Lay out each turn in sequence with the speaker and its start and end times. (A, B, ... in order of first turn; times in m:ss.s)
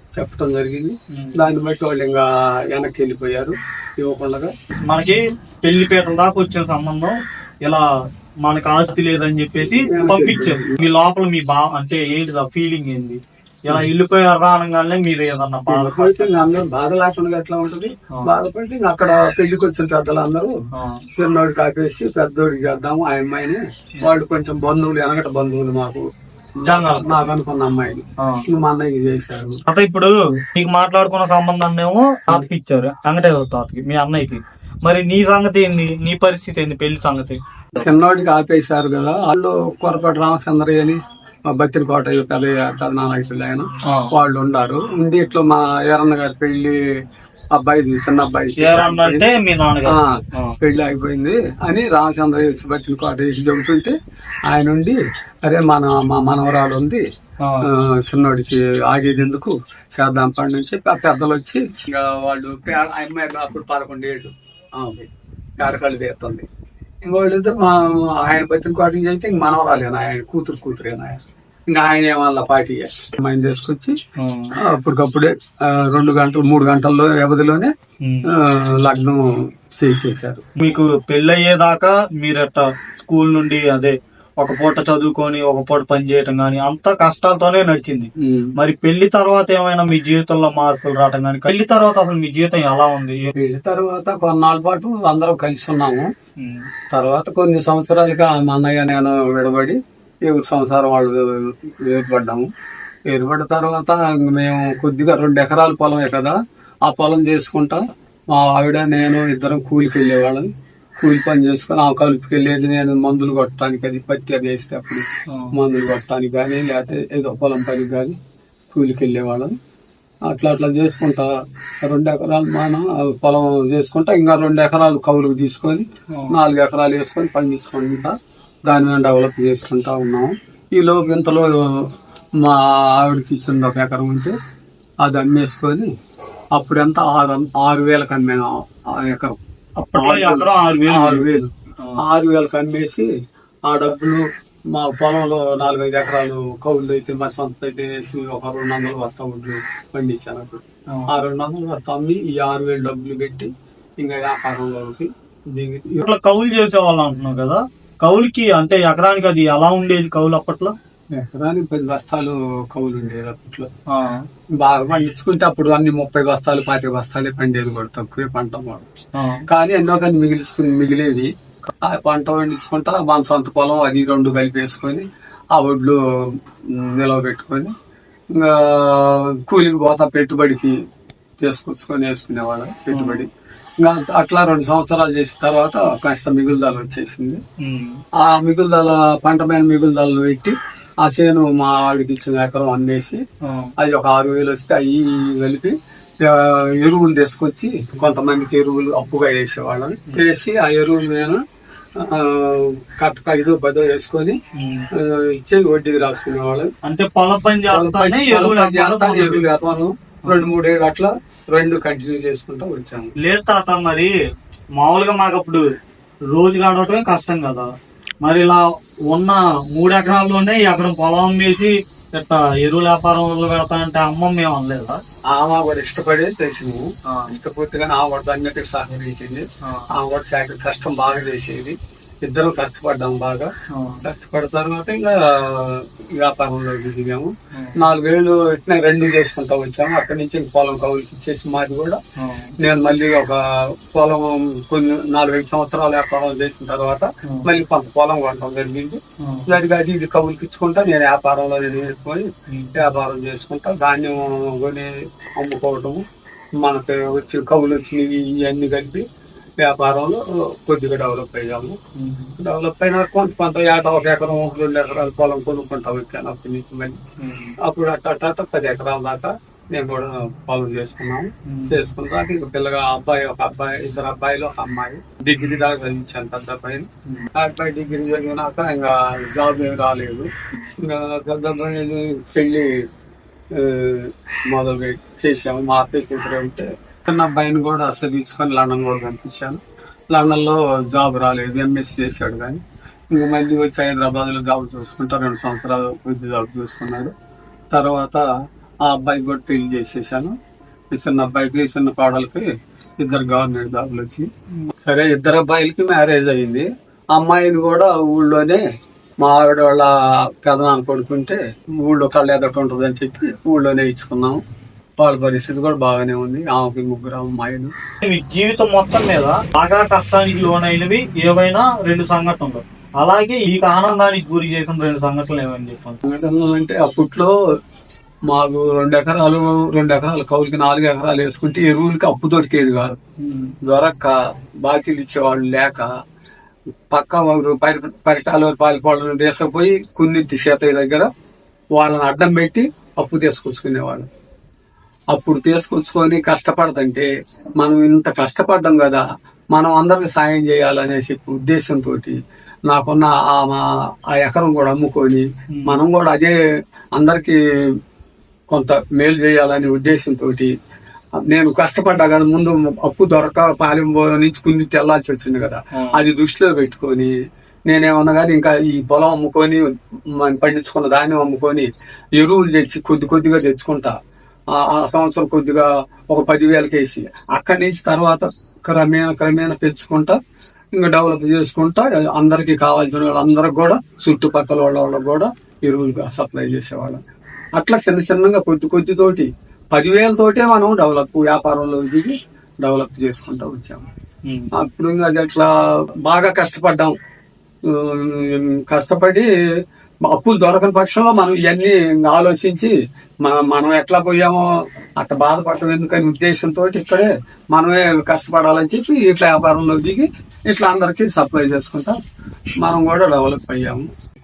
0:00.1-0:04.5 A
0:01.1-0:01.5 B
0:04.9-0:07.8 B
0:08.4-0:16.4 B
0:09.7-0:10.8 A
0:15.7-0:20.5 A
0:20.7-0:21.0 B
0:21.1-0:26.0 A
0:26.6-0:29.6 A
0:26.7-0:27.3 B
0:29.7-0:37.8 B
0:37.8-0:41.0 A
0:41.5-0:46.8 A
0:43.8-0:44.1 B
0:47.5-0:49.2 A
0:48.6-0:50.5 B
0:49.8-0:53.9 A
0:54.5-0:57.0 A
0:57.6-1:06.4 A
1:07.0-1:14.0 A
1:14.2-1:14.5 B
1:14.7-1:17.7 A
1:18.0-1:18.3 B
1:18.3-1:19.2 A
1:19.8-1:20.4 A
1:20.6-1:33.3 B
1:28.2-1:28.5 A
1:33.3-1:36.1 A
1:36.4-1:36.7 B
1:36.9-1:41.3 A
1:41.8-1:42.5 A
1:43.1-1:46.3 A
1:46.8-1:47.8 A
1:48.3-1:50.5 A
1:51.0-1:58.2 A
1:58.7-1:59.5 A
2:00.3-2:01.3 A
2:01.8-2:08.1 A
2:08.7-2:11.9 A
2:12.4-2:14.3 A
2:15.0-2:15.9 A
2:16.6-2:19.4 A
2:19.8-2:21.3 B
2:19.9-2:21.5 A
2:22.0-2:23.1 A
2:23.7-2:36.0 A
2:36.0-2:40.7 B
2:41.1-2:43.7 A
2:43.9-2:44.2 B
2:44.6-2:48.8 A
2:49.1-2:49.4 B
2:49.5-2:51.3 A
2:51.8-2:56.0 A
2:56.8-2:57.7 A
2:58.4-3:00.7 A
3:01.4-3:03.3 A
3:02.9-3:03.3 B
3:03.8-3:07.4 A
3:07.6-3:08.0 B
3:08.2-3:13.2 A
3:13.4-3:13.7 B
3:13.8-3:21.4 A
3:22.0-3:24.4 A
3:24.6-3:24.9 B
3:25.0-3:26.7 A
3:26.8-3:29.4 B
3:27.7-3:33.1 A
3:30.2-3:30.5 B
3:33.2-3:34.1 B
3:34.8-3:35.6 B
3:36.3-3:37.7 B
3:38.2-3:45.0 B
3:45.3-3:53.5 A
3:53.7-3:54.0 B
3:54.0-4:02.0 A
4:02.2-4:02.5 B
4:02.6-4:03.4 A
4:03.9-4:16.0 A
4:09.2-4:09.5 B
4:12.5-4:12.7 B
4:16.6-4:19.0 A
4:19.6-4:21.8 A
4:22.0-4:22.3 B
4:22.4-4:27.0 A
4:27.2-4:27.5 B
4:27.6-4:42.7 A
4:31.5-4:31.8 B
4:43.5-4:49.6 A
4:50.1-4:52.6 A
4:53.1-4:57.1 A
4:57.7-4:58.2 A
4:58.8-5:00.3 A
5:00.9-5:02.4 A
5:03.0-5:04.3 A
5:04.8-5:08.6 A
5:09.2-5:09.9 A
5:10.4-5:14.4 A
5:15.0-5:17.7 A
5:18.0-5:26.0 B
5:26.0-5:27.3 A
5:28.3-5:33.0 A
5:33.2-5:33.5 B
5:33.6-5:34.1 A
5:34.6-5:35.9 A
5:36.9-5:41.1 A
5:41.7-5:44.1 A
5:45.1-5:47.1 A
5:47.6-5:52.2 A
5:52.7-5:56.4 A
5:55.5-5:55.8 B
5:57.0-5:57.4 A
5:58.5-6:00.5 A
6:01.3-6:07.1 A
6:05.8-6:06.0 B
6:07.7-6:13.9 A
6:14.6-6:20.2 A
6:20.8-6:27.0 A
6:27.5-6:33.8 A
6:34.6-6:35.5 A
6:36.0-6:36.9 A
6:37.7-6:39.3 A
6:40.0-6:44.4 A
6:45.0-6:52.0 A
6:52.6-6:53.8 A